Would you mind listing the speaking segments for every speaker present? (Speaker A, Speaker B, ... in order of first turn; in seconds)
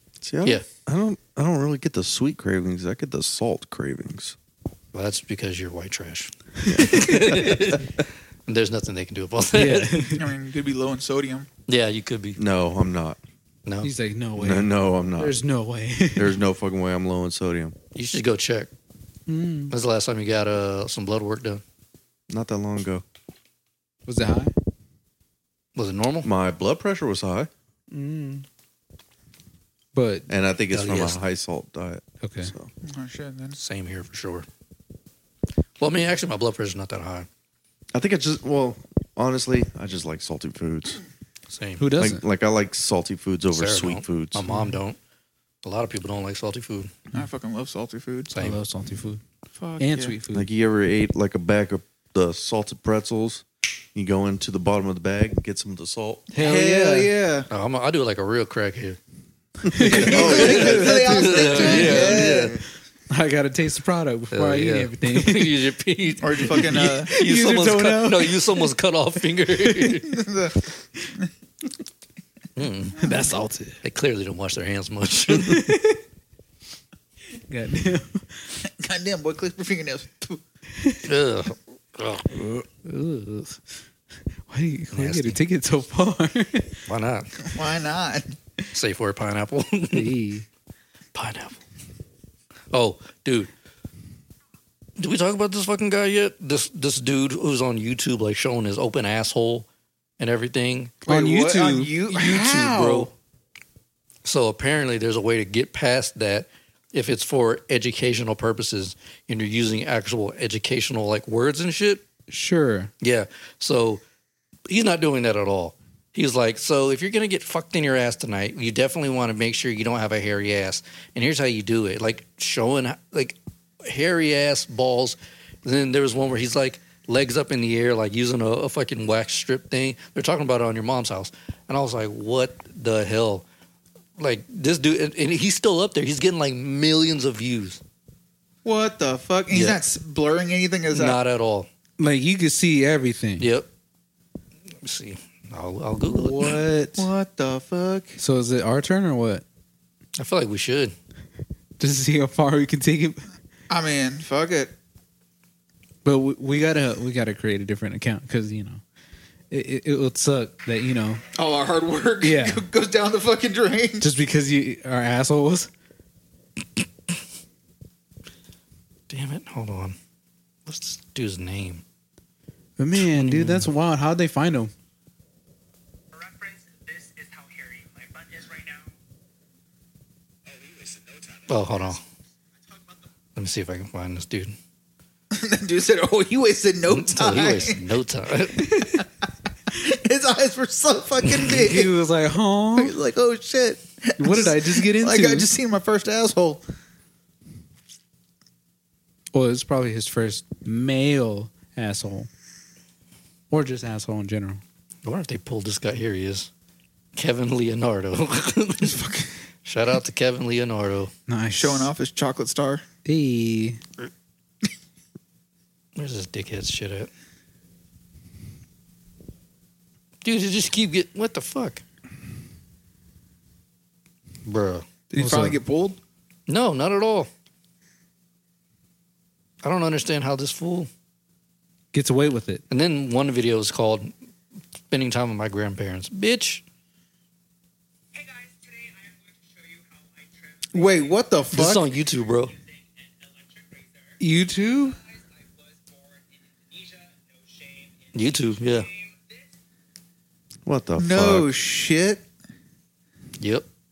Speaker A: 0.2-4.4, 6.7-7.7, 12.4-13.2, 14.4-15.4, 16.2-17.8, 22.3-23.0, 26.2-27.5, 30.3-32.7, 37.9-41.0, 42.0-44.5, 50.3-53.4, 54.0-56.3, 59.7-60.9, 62.2-62.6, 250.7-251.5
Speaker B: 4.9-7.9, 8.5-10.2, 11.7-12.4, 17.9-18.7, 19.7-21.6, 25.8-26.3, 30.7-31.2, 33.6-34.5, 35.8-37.3, 41.5-41.8, 43.5-45.0, 45.6-46.9, 57.5-59.0, 59.8-62.6, 64.3-70.2, 72.6-73.0, 73.8-75.7, 81.0-82.5, 84.9-85.4, 86.9-87.3, 88.7-90.1, 91.1-91.6, 92.7-93.5, 95.0-99.7, 100.2-101.0, 102.1-103.1, 104.2-112.0, 113.0-114.0, 114.7-133.4, 134.2-137.8, 139.5-139.8, 140.9-141.7, 143.4-143.7, 144.8-146.6, 150.2-150.9, 169.1-170.0, 170.7-171.8, 173.0-173.7, 181.5-182.0, 183.4-184.6, 186.9-188.9, 205.1-206.5, 207.2-209.0, 209.7-211.1, 216.0-217.1, 220.2-221.8, 224.4-224.9, 226.5-227.3, 229.6-230.9, 232.7-234.1, 234.9-236.6, 241.5-242.6, 248.1-248.9, 253.4-253.7
Speaker C: 9.5-10.2, 13.8-16.4, 19.3-19.7, 24.1-24.5, 27.9-28.5, 29.9-30.3, 32.2-32.5, 41.8-42.2, 44.5-44.8, 48.4-49.2, 49.8-50.5, 56.3-57.1, 59.6-62.4, 63.1-65.6, 66.4-68.7, 69.5-70.0, 73.0-73.8, 75.3-76.0, 77.5-78.4, 80.8-81.0, 82.3-83.6, 84.5-86.8, 89.9-90.5, 101.1-101.9, 112.3-112.9, 142.0-143.5, 146.0-147.1, 148.2-149.4, 151.8-153.2, 156.1-158.8, 159.5-161.2, 162.2-162.7, 164.0-165.7, 172.8-174.7, 191.5-192.9, 194.2-195.5, 199.3-202.3, 203.5-204.6, 211.3-211.9, 213.1-213.8, 225.2-225.6, 231.9-232.6, 244.2-245.0
Speaker D: 10.2-11.5, 32.8-33.6, 47.1-48.3, 49.5-50.2, 56.3-57.5, 59.8-62.6, 66.2-67.1, 70.1-70.6, 78.6-80.4, 87.5-88.4, 101.0-103.1, 138.7-141.2, 147.0-148.2, 153.7-154.7, 161.3-164.1, 185.3-187.8, 189.7-191.9, 192.8-196.6, 211.6-212.8, 225.1-226.0, 240.7-241.9, 251.0-252.2
Speaker E: 176.1-178.9, 180.8-181.4, 238.2-240.8, 242.6-244.1, 245.1-248.2